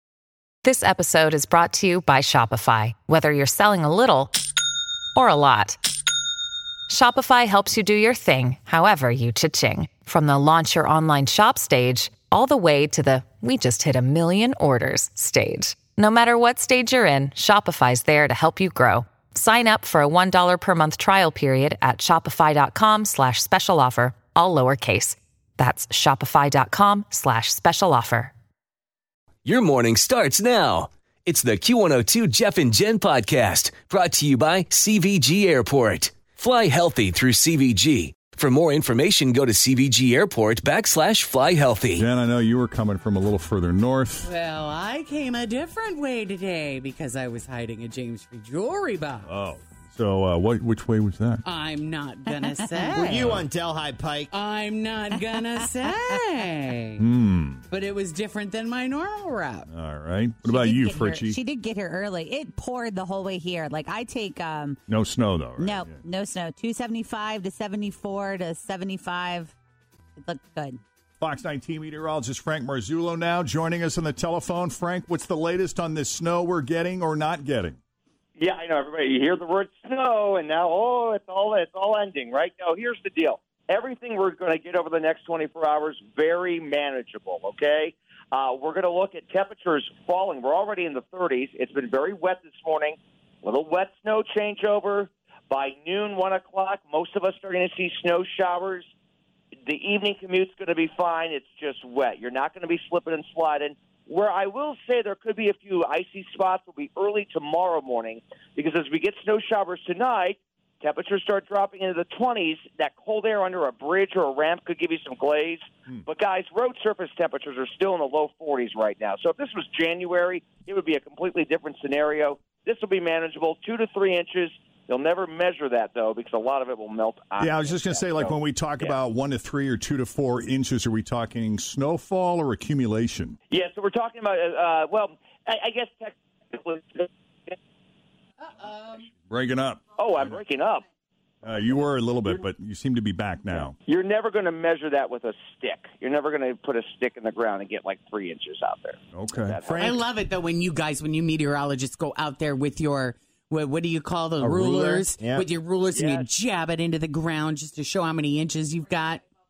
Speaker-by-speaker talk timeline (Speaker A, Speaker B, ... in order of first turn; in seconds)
Speaker A: 0.6-4.3, 5.2-5.8, 6.9-28.3, 29.6-30.7, 31.4-31.9, 35.8-36.3, 38.5-39.5, 40.4-41.2
Speaker B: 29.4-38.6, 39.1-42.0
Speaker C: 41.9-44.3, 49.2-51.4, 57.0-57.6, 59.7-61.4, 64.9-66.0, 71.2-77.8, 127.4-133.4, 139.3-140.4, 141.4-143.8, 149.1-150.0
Speaker D: 44.2-49.3, 51.4-53.0, 54.3-57.0, 57.7-59.7, 138.4-139.1, 149.8-159.2
Speaker E: 52.4-53.3, 60.4-64.8, 65.6-69.5, 70.2-70.8
Speaker F: 52.9-54.3, 154.4-155.5
Speaker G: 78.4-98.8, 99.7-128.9, 133.5-137.6, 139.9-140.8, 143.8-149.8, 155.9-156.3